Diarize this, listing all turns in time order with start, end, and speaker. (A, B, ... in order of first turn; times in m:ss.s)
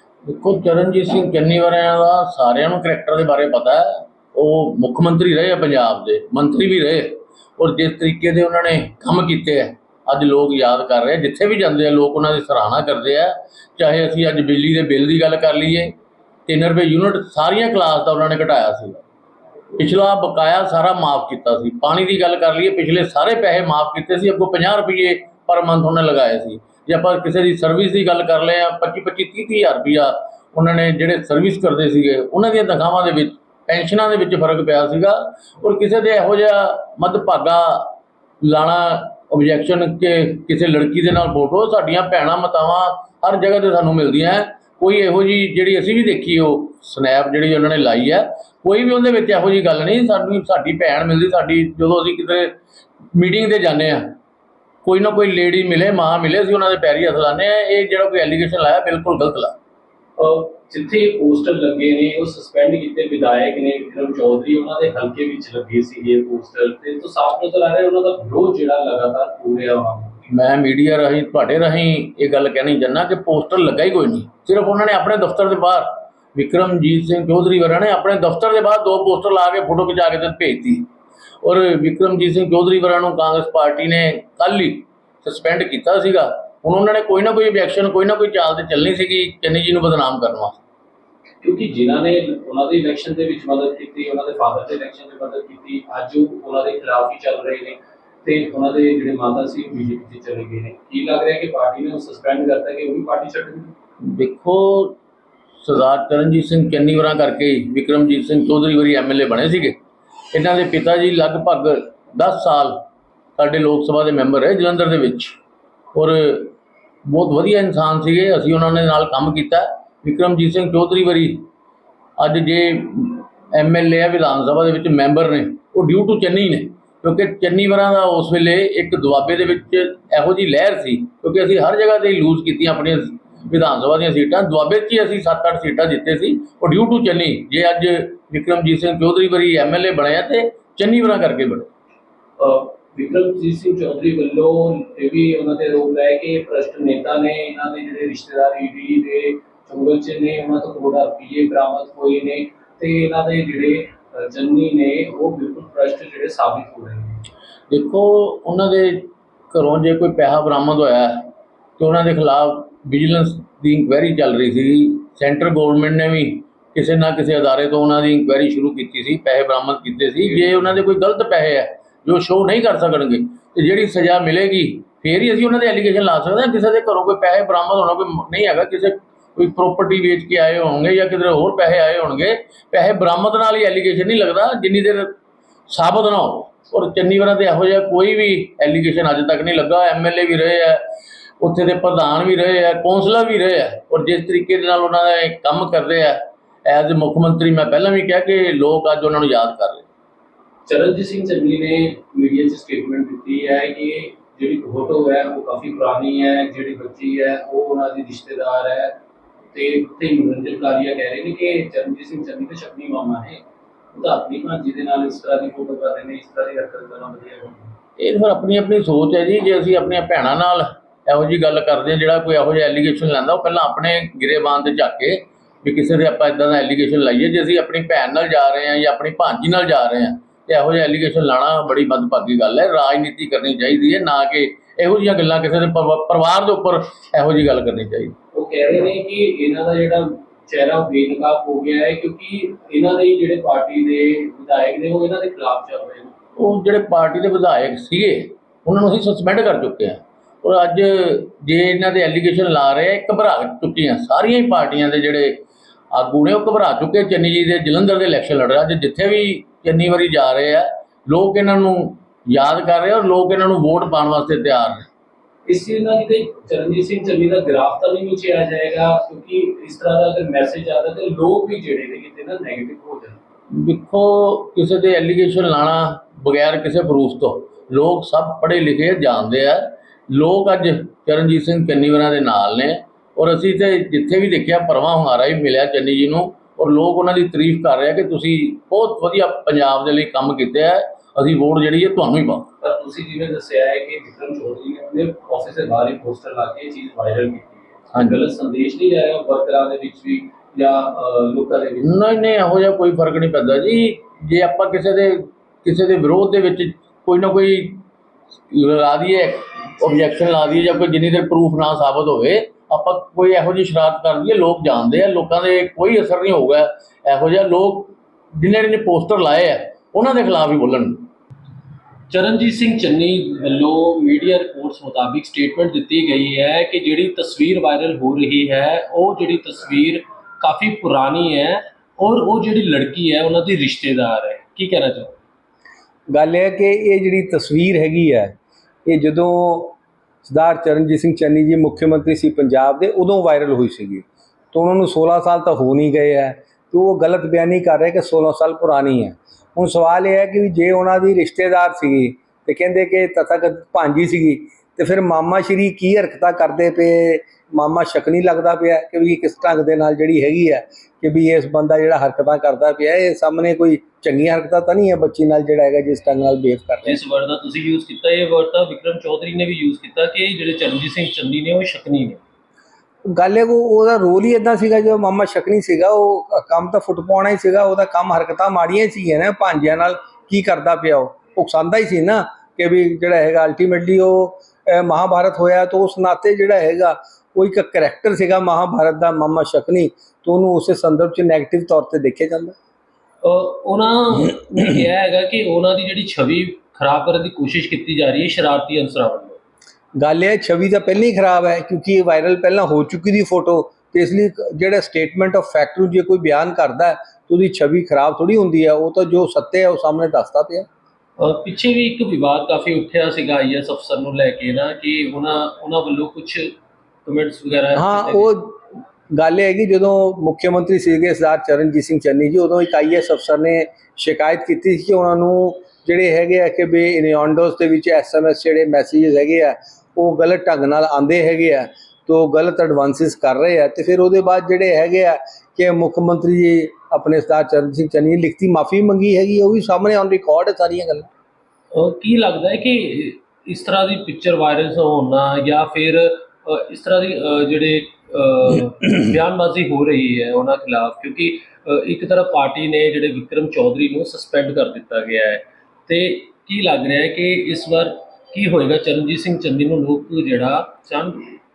0:00.2-0:15.9 A
0:16.5-0:19.0 A
0:19.8-0:52.6 A
0:53.1-0:54.1 A
0:54.8-0:59.6 A
1:00.2-1:10.2 B
1:10.3-1:20.9 A
1:21.4-1:30.6 A
1:31.4-1:43.7 B
1:44.0-1:45.0 A
1:45.6-1:49.8 A
1:50.3-1:52.8 A
1:53.4-1:55.4 A
1:55.9-1:56.5 A
1:57.0-2:01.5 A
2:02.2-2:21.7 A
2:22.4-2:37.2 B
2:37.7-3:05.1 A
3:05.7-3:10.8 A
3:11.4-3:19.8 A
3:20.6-3:29.0 B
3:29.5-3:33.4 B
3:33.9-3:37.7 B
3:38.0-3:58.2 A
3:58.3-4:06.1 B
4:06.4-4:24.8 A
4:25.4-4:33.2 B
4:33.5-4:52.5 A
4:52.6-5:02.0 B
5:01.8-5:07.8 A
5:08.5-5:21.1 A
5:22.1-5:35.2 B
5:36.1-5:38.3 C
5:38.8-6:07.0 C
6:06.8-6:12.2 B
6:13.1-6:32.5 C
6:33.2-6:39.4 B
6:40.0-6:50.6 C
6:51.2-6:58.3 B
6:57.8-6:58.6 C
6:59.1-7:21.1 C
7:21.7-7:41.3 B